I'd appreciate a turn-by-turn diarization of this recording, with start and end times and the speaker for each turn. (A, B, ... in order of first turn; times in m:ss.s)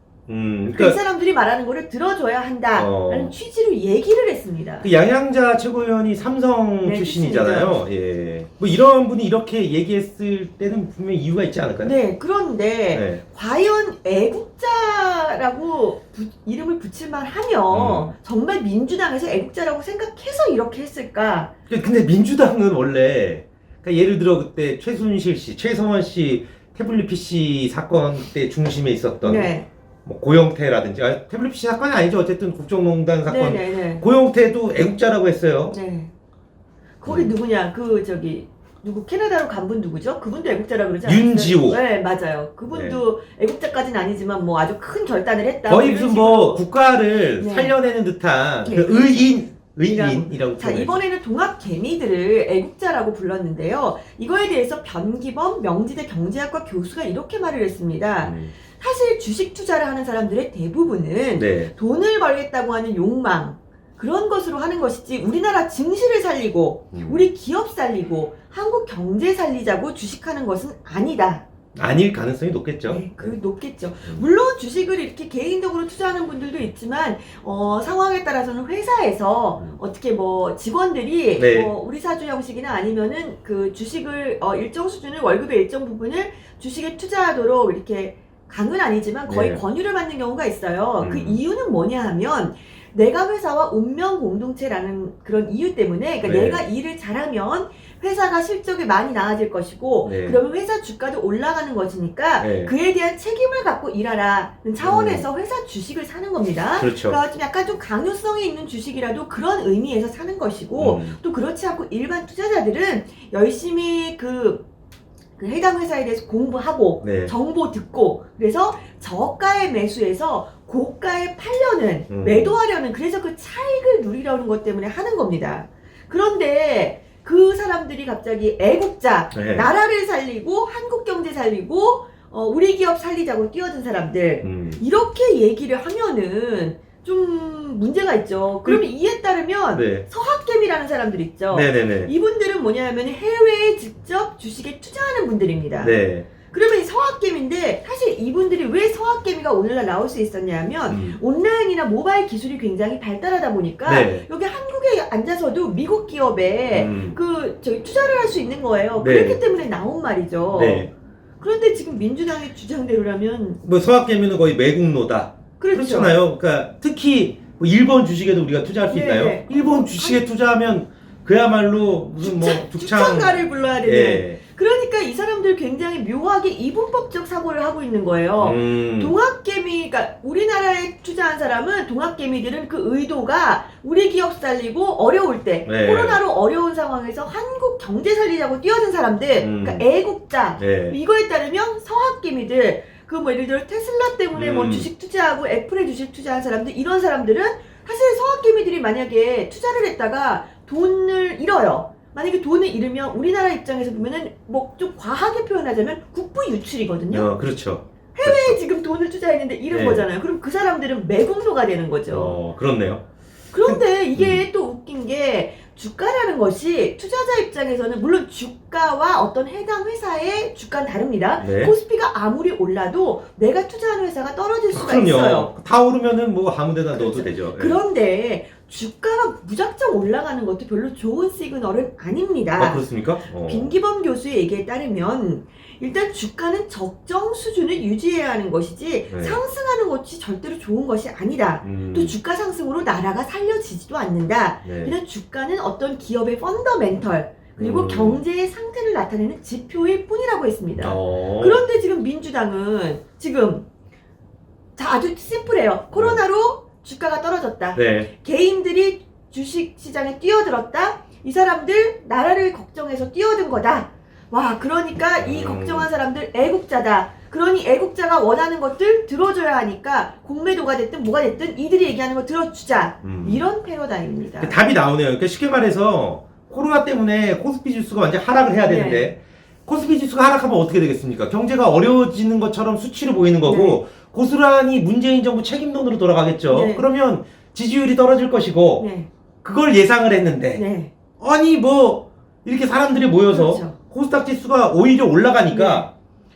0:00.3-0:01.0 A
0:00.7-0:04.9 B
0:02.8-0:03.3 A
0:04.8-0:11.9 A
0:06.8-0:07.8 B
0:11.8-0:21.5 B
0:12.9-0:13.2 A
0:17.7-0:18.1 A
0:21.7-0:29.5 A
0:29.2-0:29.7 B
0:30.0-0:35.8 A
0:33.3-0:34.1 B
0:35.7-0:36.1 B
0:37.0-0:46.6 B
0:37.1-0:37.3 A
0:41.0-0:41.8 A
0:42.7-0:43.0 A
0:45.7-0:51.0 A
0:47.4-0:47.8 B
0:48.6-1:11.4 B
0:58.2-0:58.5 A
1:01.4-1:01.7 A
1:06.9-1:07.2 A
1:11.8-1:13.4 A
1:12.9-1:54.6 B
1:21.4-1:21.7 A
1:29.3-1:29.6 A
1:31.0-1:31.4 A
1:36.2-1:36.6 A
1:40.0-1:40.4 A
1:42.4-1:42.7 A
1:44.8-1:45.3 A
1:46.8-1:47.2 A
1:50.8-1:51.2 A
1:55.4-2:40.9 B
1:57.0-1:57.3 A
2:02.1-2:02.6 A
2:09.3-2:09.7 A
2:14.4-2:14.8 A
2:19.7-2:20.0 A
2:21.5-2:22.1 A
2:25.8-2:26.3 A
2:30.9-2:31.2 A
2:33.8-2:34.2 A
2:36.7-2:37.2 A
2:39.0-2:39.4 A
2:40.5-2:40.9 A
2:41.4-2:43.6 B
2:43.6-2:54.4 A
2:45.6-2:46.2 B
2:48.9-2:50.2 B
2:52.2-3:27.3 B
2:58.4-2:59.2 A
3:05.7-3:06.2 A
3:09.4-3:09.8 A
3:10.6-3:11.0 A
3:14.3-3:14.9 A
3:27.1-3:28.6 A
3:28.2-3:32.4 B
3:29.7-3:30.1 A
3:32.1-3:33.0 A
3:33.5-3:45.5 B
3:33.6-3:34.4 A
3:41.4-3:41.7 A
3:44.7-3:47.8 A
3:46.9-3:52.9 B
3:52.6-3:53.7 A
3:53.4-4:13.7 B
3:59.1-3:59.4 A
4:01.6-4:02.2 A
4:04.6-4:05.0 A
4:07.6-4:08.2 A
4:10.8-4:11.6 A
4:14.8-4:34.6 B
4:15.9-4:16.2 A
4:17.8-4:18.1 A
4:25.2-4:25.9 A
4:33.0-4:33.4 A
4:34.4-4:48.9 A
4:38.7-4:39.1 B
4:43.4-4:43.8 B
4:46.5-4:46.8 B
4:48.8-4:49.1 B
4:49.4-4:50.6 A
4:50.6-4:50.9 B
4:51.2-4:55.9 A
4:53.3-4:53.8 B
4:55.5-4:55.9 B